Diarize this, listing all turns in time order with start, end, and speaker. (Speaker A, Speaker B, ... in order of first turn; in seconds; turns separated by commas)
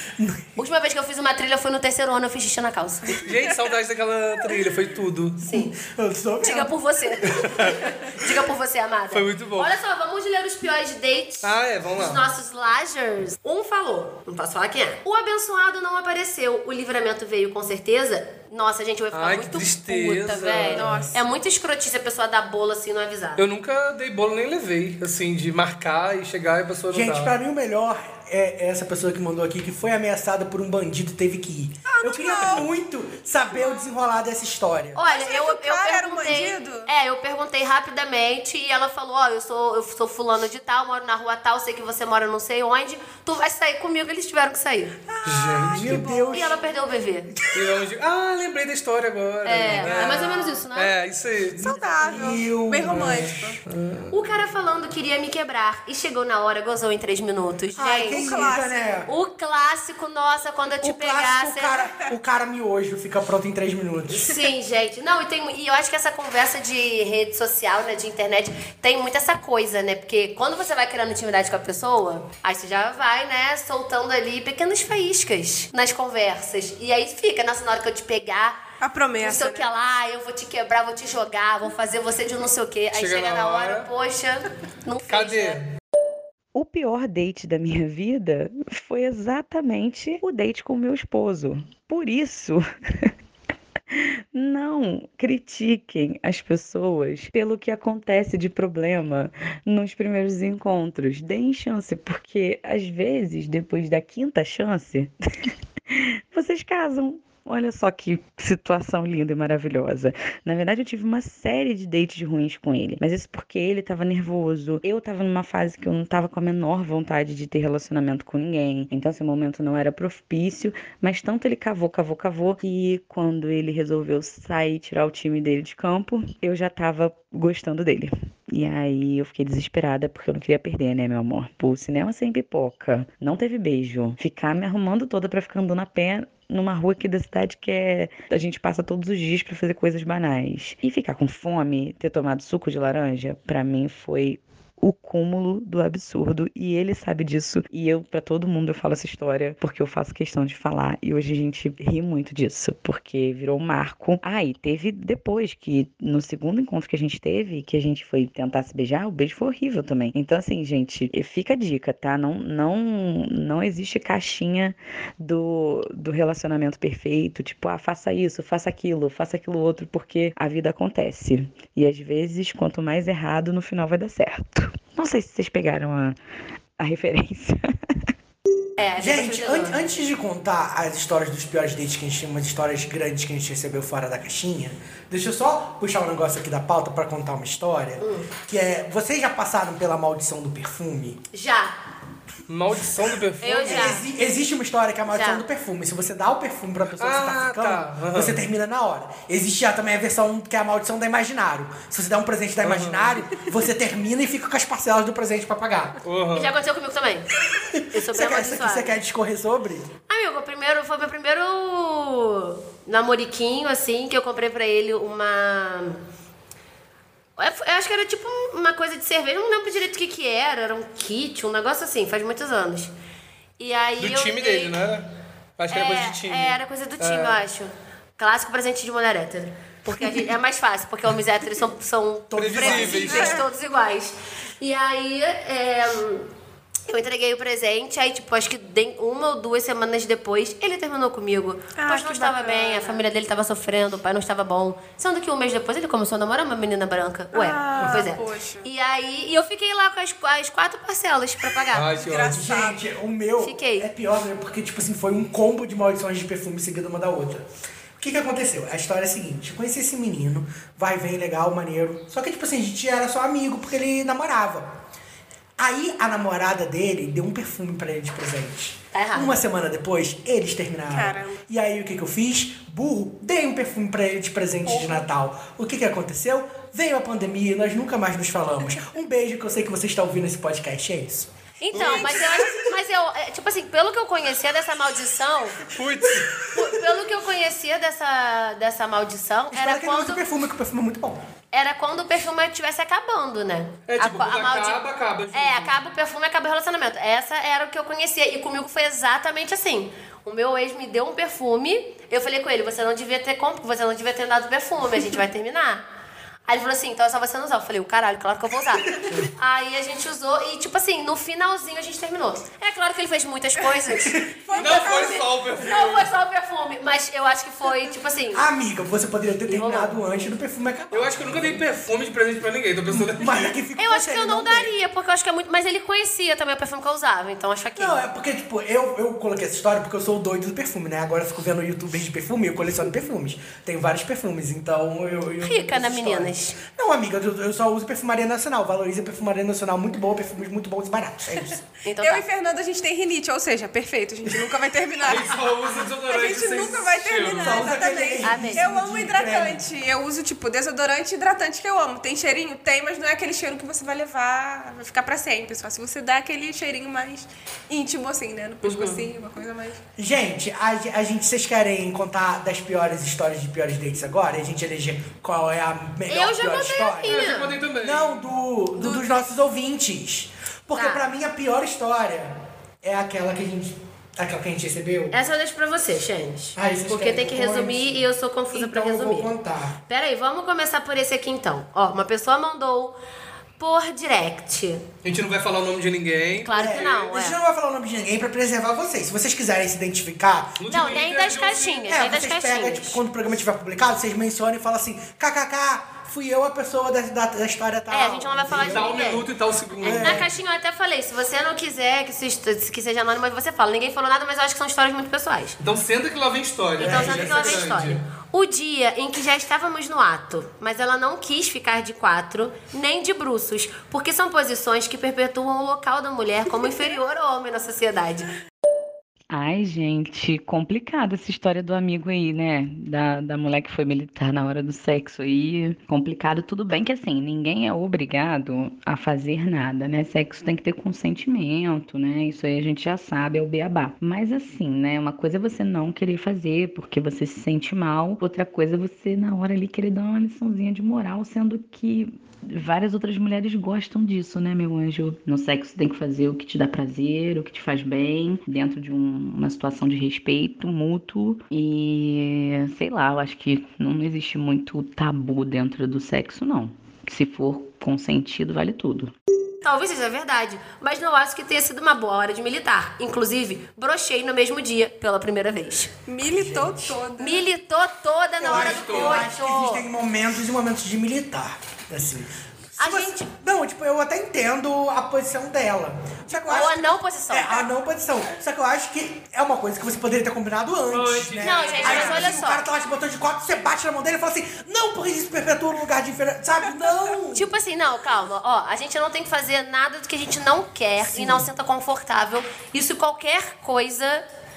Speaker A: 0.2-0.6, Speaker B: 0.6-3.3, Speaker C: 3.2-5.4, Speaker B: 5.4-5.7, Speaker A: 5.5-6.8, Speaker B: 6.4-23.5, Speaker C: 9.1-9.7, Speaker C: 11.4-12.2, Speaker C: 19.1-21.0, Speaker D: 20.8-21.1, Speaker A: 20.8-21.1, Speaker C: 23.4-27.3, Speaker A: 26.9-35.0, Speaker D: 31.9-32.7, Speaker D: 33.5-33.9, Speaker B: 35.0-45.0, Speaker D: 35.1-36.9, Speaker D: 45.1-46.6, Speaker C: 45.2-46.0, Speaker A: 45.6-46.5, Speaker B: 46.3-47.3, Speaker C: 47.5-51.7, Speaker B: 49.5-50.9, Speaker D: 49.8-50.6, Speaker A: 51.6-53.3, Speaker D: 51.6-53.6, Speaker C: 52.9-54.2, Speaker B: 54.1-58.3, Speaker A: 57.8-59.1, Speaker D: 58.0-58.8, Speaker B: 59.1-61.9, Speaker A: 60.8-64.4, Speaker B: 64.1-78.6, Speaker D: 78.8-79.7, Speaker B: 79.2-85.6, Speaker C: 83.0-83.9, Speaker C: 85.1-85.6, Speaker E: 86.5-93.1, Speaker E: 94.0-105.1, Speaker E: 105.9-176.2, Speaker E: 176.8-177.6, Speaker B: 178.8-179.8, Speaker A: 179.0-191.2, Speaker B: 188.0-188.3, Speaker B: 191.3-191.8, Speaker C: 192.5-194.0, Speaker B: 193.4-194.1, Speaker A: 193.6-206.0, Speaker B: 195.1-195.4, Speaker C: 197.0-198.4, Speaker C: 202.6-203.4, Speaker C: 206.1-206.5, Speaker B: 206.3-207.3, Speaker A: 207.6-209.9, Speaker B: 207.9-209.0, Speaker B: 210.1-216.0, Speaker B: 217.4-222.9, Speaker B: 223.6-224.8, Speaker C: 224.0-227.4, Speaker B: 225.7-236.3, Speaker A: 232.3-233.4, Speaker C: 232.4-233.4, Speaker D: 233.1-233.4, Speaker B: 236.9-251.9, Speaker D: 241.8-243.0, Speaker D: 247.3-248.7, Speaker C: 251.7-252.4, Speaker D: 251.9-252.8, Speaker A: 252.3-257.4, Speaker B: 253.4-253.9, Speaker A: 258.0-264.7, Speaker A: 265.6-281.3, Speaker B: 268.9-269.4, Speaker D: 270.9-271.4, Speaker B: 274.7-275.1, Speaker B: 281.6-285.6, Speaker C: 281.7-282.5, Speaker D: 281.8-282.3, Speaker C: 285.7-286.5, Speaker B: 286.5-290.2, Speaker A: 289.5-291.2, Speaker B: 291.5-305.8, Speaker C: 293.9-295.8, Speaker B: 306.5-318.5, Speaker D: 313.6-315.2, Speaker C: 314.6-316.1, Speaker A: 318.3-321.6, Speaker B: 319.5-320.0, Speaker C: 320.9-323.6, Speaker A: 322.9-324.7, Speaker B: 323.8-328.0, Speaker A: 327.8-341.6, Speaker B: 335.4-336.6, Speaker B: 341.8-342.2, Speaker D: 342.0-359.8, Speaker C: 345.1-347.7, Speaker A: 347.4-349.6, Speaker B: 348.2-348.7, Speaker C: 358.6-359.0, Speaker A: 360.0-367.3, Speaker B: 366.1-367.6, Speaker C: 367.1-368.2, Speaker A: 367.8-375.2, Speaker B: 370.8-371.0, Speaker B: 375.1-379.3, Speaker A: 376.6-379.8, Speaker B: 379.9-383.0, Speaker B: 383.6-384.9, Speaker C: 385.0-386.9, Speaker B: 386.4-387.4, Speaker A: 386.6-390.7, Speaker C: 390.6-391.9, Speaker B: 390.7-393.0, Speaker A: 391.9-399.0, Speaker B: 397.9-405.6, Speaker C: 398.5-400.3, Speaker A: 399.8-400.3, Speaker C: 405.6-408.0, Speaker B: 406.8-418.3, Speaker A: 406.8-407.7, Speaker E: 419.3-459.1, Speaker B: 459.6-465.9, Speaker D: 466.1-467.5, Speaker A: 466.3-466.9, Speaker B: 467.2-469.9, Speaker A: 468.4-487.5, Speaker C: 468.5-469.3, Speaker B: 472.8-473.2, Speaker B: 476.3-477.7, Speaker C: 480.9-482.4, Speaker B: 481.4-482.6, Speaker D: 486.6-487.2, Speaker B: 487.4-494.2, Speaker A: 491.1-491.5